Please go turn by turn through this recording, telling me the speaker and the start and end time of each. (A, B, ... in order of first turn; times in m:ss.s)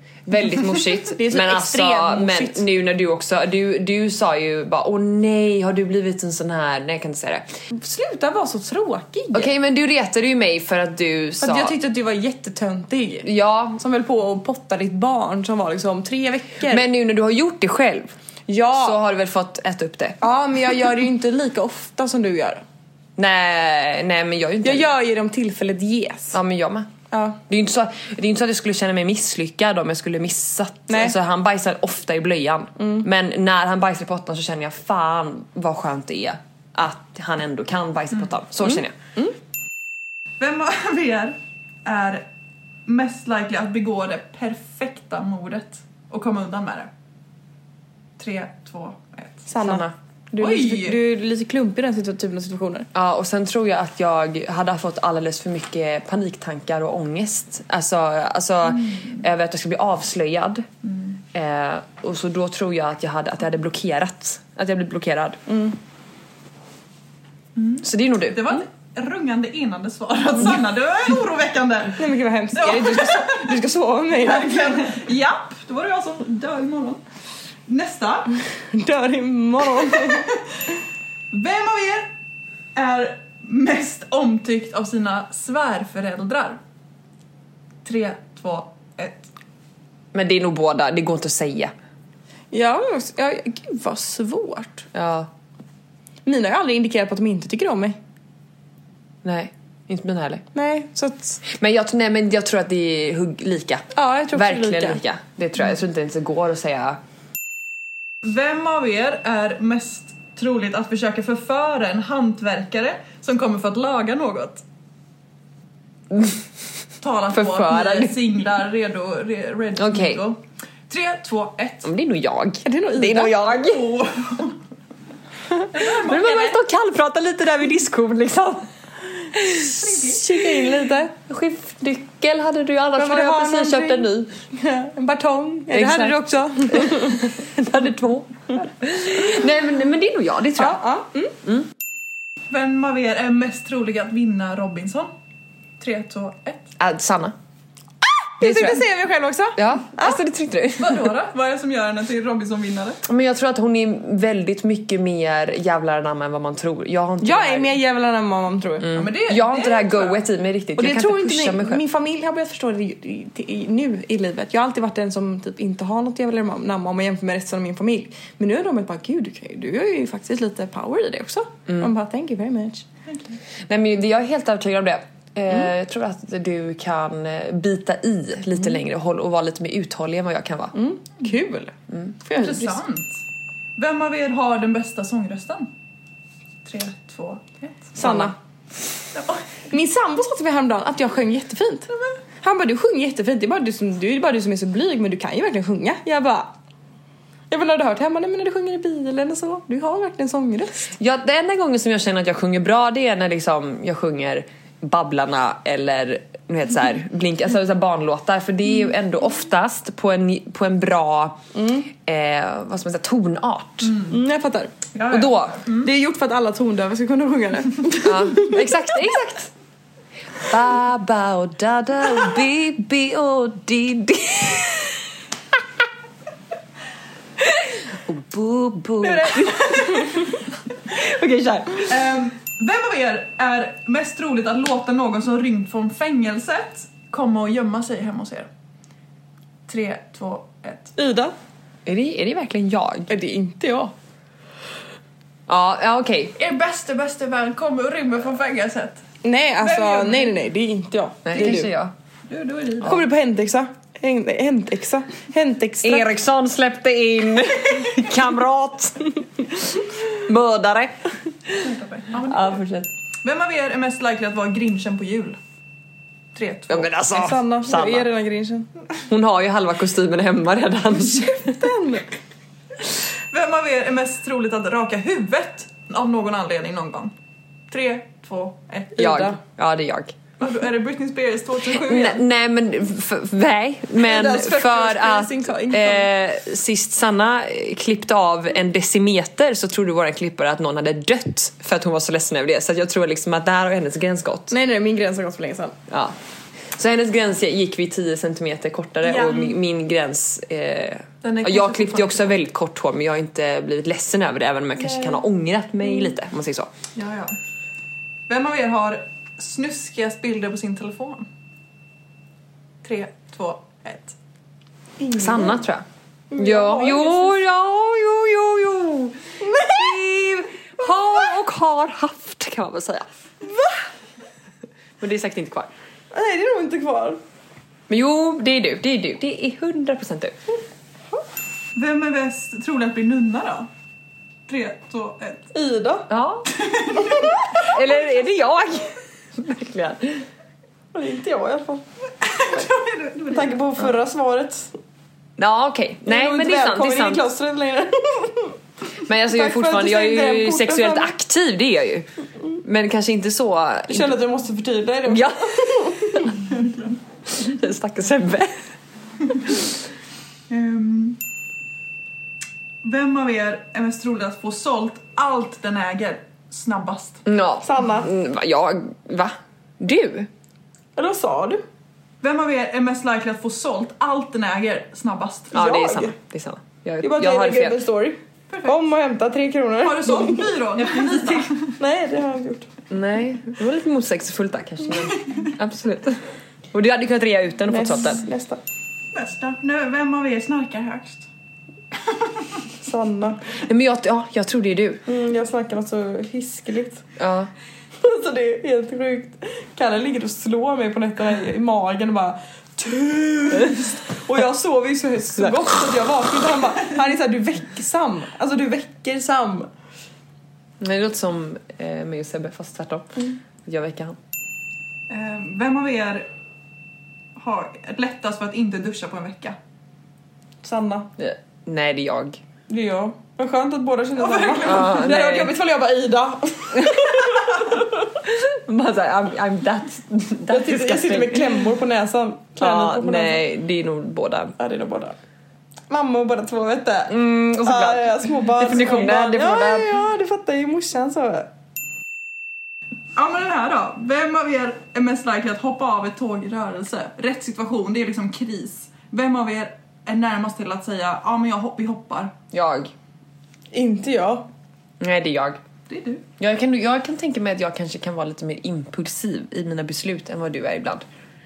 0:00.3-0:07.4 A
0:00.3-0:02.7 B
0:07.7-0:09.5 B
0:09.3-0:11.8 A
0:11.4-0:16.8 B
0:13.2-0:13.8 A
0:16.7-0:18.1 A
0:18.5-0:19.0 B
0:18.7-0:20.2 A
0:20.2-0:22.6 B
0:23.2-0:24.9 A
0:24.6-0:26.4 B
0:26.3-0:26.9 A
0:27.1-0:27.4 B
0:27.5-0:38.9 A
0:30.9-0:31.2 B
0:32.8-0:33.0 B
0:38.7-0:39.4 B
0:40.4-0:42.3 C
0:42.9-0:46.9 C
0:48.2-0:49.5 C
0:49.5-0:52.9 B
0:49.6-0:49.9 A
0:50.4-0:51.0 C
0:52.9-1:00.7 A
1:00.8-1:01.2 C
1:01.3-1:05.4 A
1:05.5-1:05.8 B
1:07.6-1:13.6 C
1:07.8-1:08.7 A
1:12.0-1:15.0 B
1:14.2-1:17.0 C
1:17.7-1:18.4 C
1:18.7-1:20.3 B
1:19.9-1:20.4 C
1:21.3-1:22.1 C
1:22.8-1:26.6 C
1:27.8-1:29.3 C
1:30.1-1:31.7 A
1:32.5-1:34.9 B
1:34.9-1:35.3 A
1:36.2-1:38.0 B
1:39.2-1:40.4 A
1:40.5-1:41.4 B
1:41.4-1:47.0 A
1:43.9-1:45.0 B
1:48.2-1:54.6 C
1:56.1-1:56.4 A
1:57.0-2:01.9 C
1:57.3-1:58.2 A
1:59.8-2:00.2 A
2:01.8-2:04.0 A
2:02.6-2:03.5 B
2:03.4-2:04.6 C
2:05.7-2:06.6 C
2:05.9-2:08.7 A
2:09.6-2:10.4 C
2:09.6-2:11.1 B
2:11.1-2:14.3 A
2:13.0-2:17.3 B
2:15.7-2:20.9 A
2:20.6-2:21.4 B
2:21.4-2:21.7 A
2:22.5-2:25.1 C
2:25.8-2:26.7 C
2:26.8-2:27.4 A
2:28.3-2:30.2 B
2:28.4-2:28.8 A
2:29.6-2:31.1 A
2:30.8-2:33.0 C
2:33.0-2:37.8 A
2:37.2-2:38.9 B
2:38.8-2:41.8 A
2:38.9-2:40.2 C
2:40.8-2:52.9 B
2:53.1-2:53.3 C
2:53.7-3:00.7 A
3:00.7-3:02.8 B
3:01.9-3:02.2 A
3:02.4-3:03.2 C
3:03.8-3:05.7 C
3:06.6-3:07.9 C
3:08.0-3:08.4 B
3:08.0-3:08.3 A
3:09.1-3:09.5 C
3:09.7-3:11.9 B
3:12.4-3:16.5 B
3:17.5-3:20.9 B
3:21.0-3:31.4 A
3:31.5-3:31.9 B
3:32.0-3:34.0 A
3:33.9-3:34.2 C
3:34.1-3:34.8 B
3:34.9-3:35.9 C
3:35.1-3:35.6 A
3:35.8-3:38.6 B
3:38.0-3:39.5 A
3:40.4-3:45.0 A
3:47.9-3:49.9 A
3:49.0-3:50.4 B
3:50.9-3:51.8 A
3:51.4-3:51.8 B
3:51.9-3:58.5 C
3:59.7-4:00.9 C
4:01.0-4:01.3 B
4:01.9-4:03.1 A
4:03.1-4:03.9 B
4:05.5-4:06.4 A
4:06.4-4:09.0 C
4:09.2-4:11.7 B
4:09.6-4:10.4 C
4:11.2-4:11.9 A
4:12.3-4:13.0 C
4:12.8-4:16.1 B
4:15.8-4:19.1 A
4:19.7-4:22.9 A
4:21.6-4:22.6 C
4:23.2-4:25.4 C
4:26.4-4:26.9 C
4:26.7-4:28.1 A
4:27.1-4:28.7 B
4:29.1-4:31.7 A
4:31.4-4:32.1 B
4:33.3-4:37.1 C
4:37.7-4:39.0 C
4:39.0-4:39.4 B
4:39.0-4:40.2 A
4:40.4-4:42.2 C
4:41.7-4:54.5 A
4:44.0-4:46.1 B
4:54.5-4:55.8 B
4:55.9-4:56.2 A
4:56.7-5:06.7 A
5:01.2-5:02.4 C
5:07.0-5:07.4 C
5:08.3-5:11.3 C
5:12.8-5:14.2 C
5:15.0-5:15.6 B
5:15.1-5:23.1 A
5:16.3-5:17.3 B
5:19.4-5:20.0 B
5:25.0-5:25.7 A
5:26.1-5:27.2 B
5:27.9-5:30.4 A
5:31.8-5:33.7 C
5:34.5-5:35.5 C
5:35.5-5:36.1 B
5:36.1-5:36.5 A
5:36.5-5:37.4 C
5:37.5-5:40.3 A
5:40.9-5:41.8 B
5:42.2-5:43.6 C
5:43.3-5:44.8 B
5:45.4-5:47.3 A
5:46.1-5:48.6 B
5:49.0-5:52.1 A
5:49.3-5:51.2 B
5:52.6-5:54.2 A
5:53.9-5:56.4 B
5:55.1-5:56.1 A
5:56.5-5:56.8 C
5:57.3-5:58.6 A
6:00.5-6:01.2 C
6:02.8-6:07.2 C
6:07.3-6:10.3 A
6:07.6-6:08.1 B
6:11.0-6:11.6 B
6:12.2-6:15.6 C
6:15.5-6:16.2 B
6:15.5-6:17.8 A
6:17.0-6:22.7 B
6:18.5-6:18.8 C
6:19.8-6:21.7 C
6:22.9-6:28.2 A
6:27.7-6:28.6 B
6:29.1-6:31.3 C
6:32.8-6:33.4 B
6:33.6-6:35.0 A
6:35.1-6:37.0 B
6:37.2-6:37.5 A
6:38.0-6:49.7 B
6:50.8-6:54.2 A
6:55.1-6:56.3 C
6:57.4-6:59.6 C
7:00.6-7:01.1 B
7:01.2-7:02.4 A
7:02.7-7:07.7 B
7:04.2-7:05.0 C
7:04.6-7:05.6 A
7:06.8-7:07.2 A
7:08.2-7:11.6 A
7:10.5-7:13.4 B
7:12.6-7:14.6 A
7:14.6-7:15.2 B
7:15.9-7:21.5 B
7:17.1-7:20.0 A
7:23.2-7:32.3 C
7:32.5-7:32.9 A
7:33.7-7:34.5 B
7:35.0-7:35.6 A
7:35.9-7:36.2 C
7:36.4-7:41.0 A